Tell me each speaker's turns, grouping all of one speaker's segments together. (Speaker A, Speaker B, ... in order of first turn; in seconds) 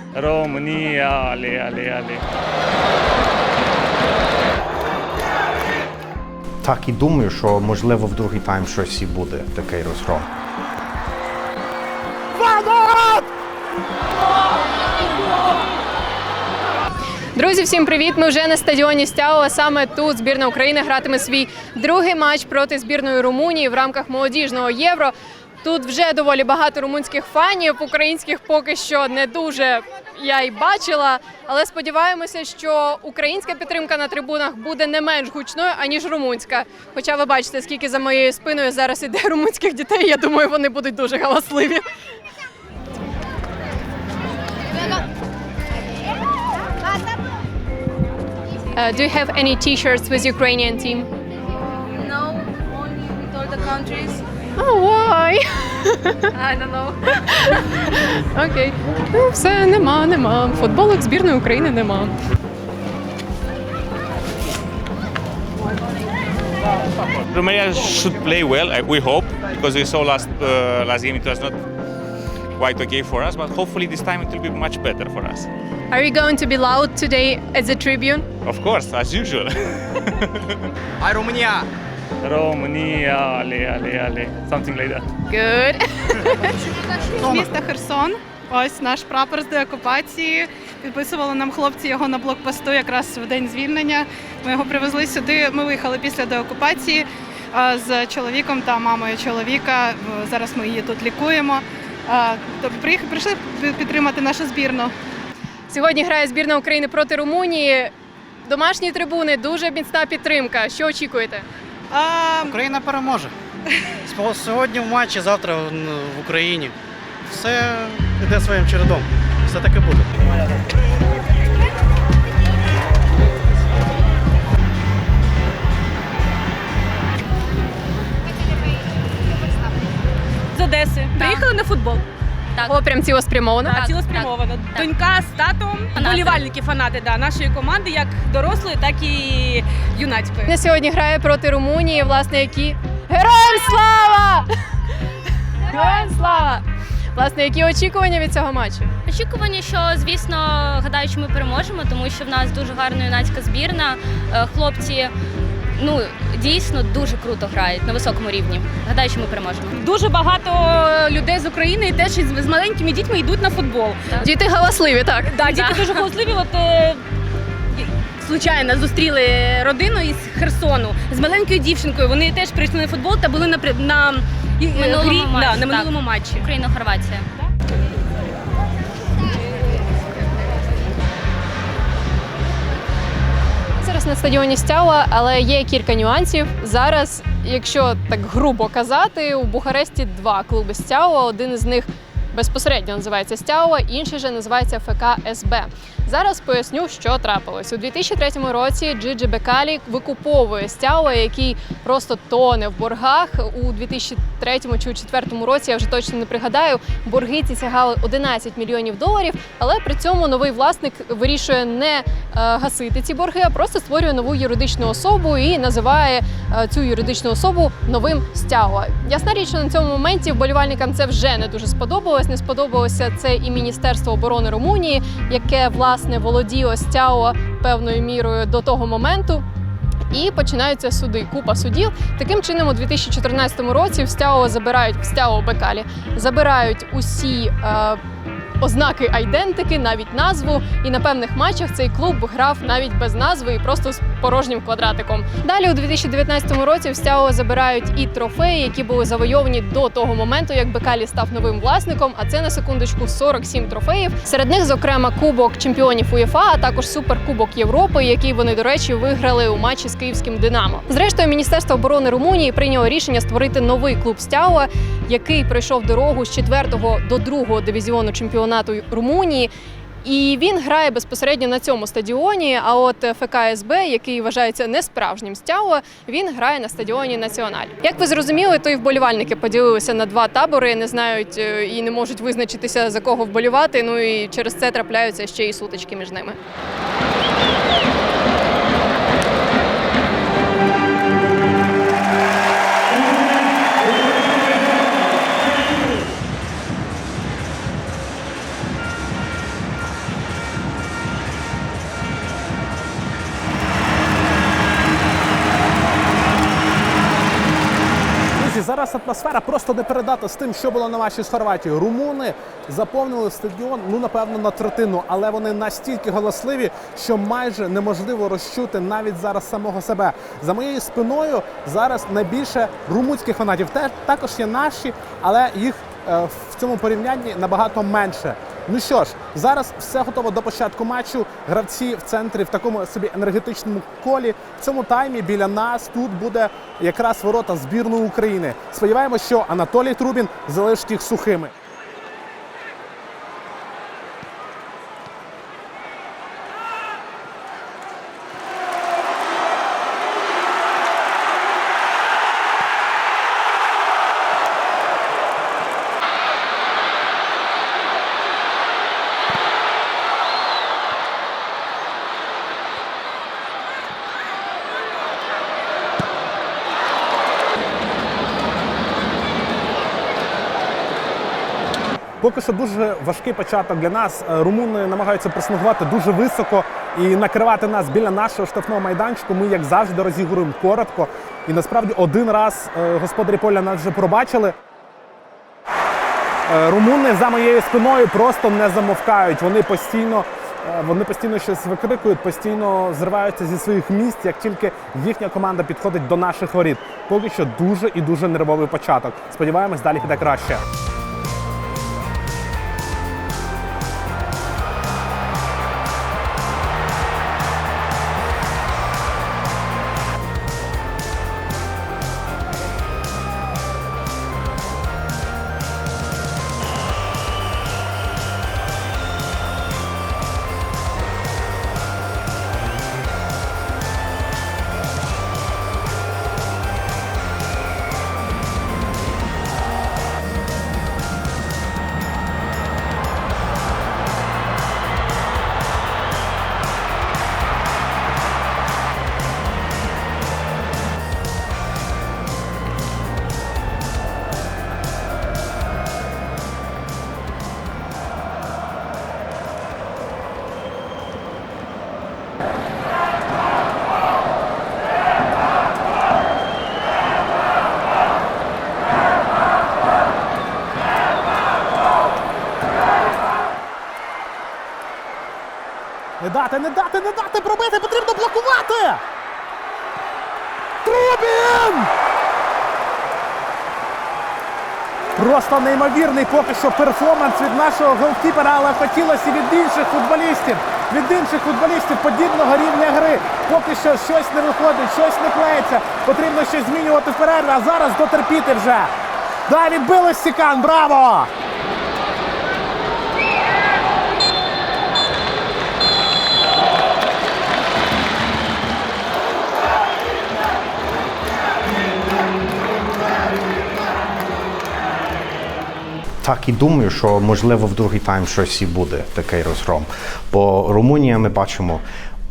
Speaker A: 0.1-2.2, 82.2-85.1
Speaker B: 6.6-10.3, 506.2-511.8
Speaker C: 12.3-13.2, 308.3-341.5, 372.2-384.5, 386.5-400.6, 466.2-469.0, 470.8-471.9, 475.1-488.9, 489.5-491.3
Speaker D: 17.4-41.8, 48.7-51.1, 54.6-56.3, 57.2-62.1, 75.9-78.2, 85.3-86.5, 105.7-107.9, 108.4-111.5, 132.6-133.9, 140.5-144.5, 145.6-146.6, 147.1-148.9, 164.2-166.0, 183.8-229.4, 230.1-238.0, 238.6-269.5, 270.0-286.4
Speaker E: 52.0-52.4, 53.4-54.2, 130.5-132.0, 133.6-140.5, 159.7-164.1, 165.2-167.0, 167.7-176.5
Speaker F: 67.3-71.6, 72.6-75.5, 78.4-80.2
Speaker G: 81.1-81.6, 112.5-113.3, 114.1-116.8, 117.3-120.1
Speaker H: 87.2-104.9, 111.9-112.6
Speaker I: 133.8-134.9, 135.9-136.4, 149.1-155.1, 155.8-159.7, 174.8-177.3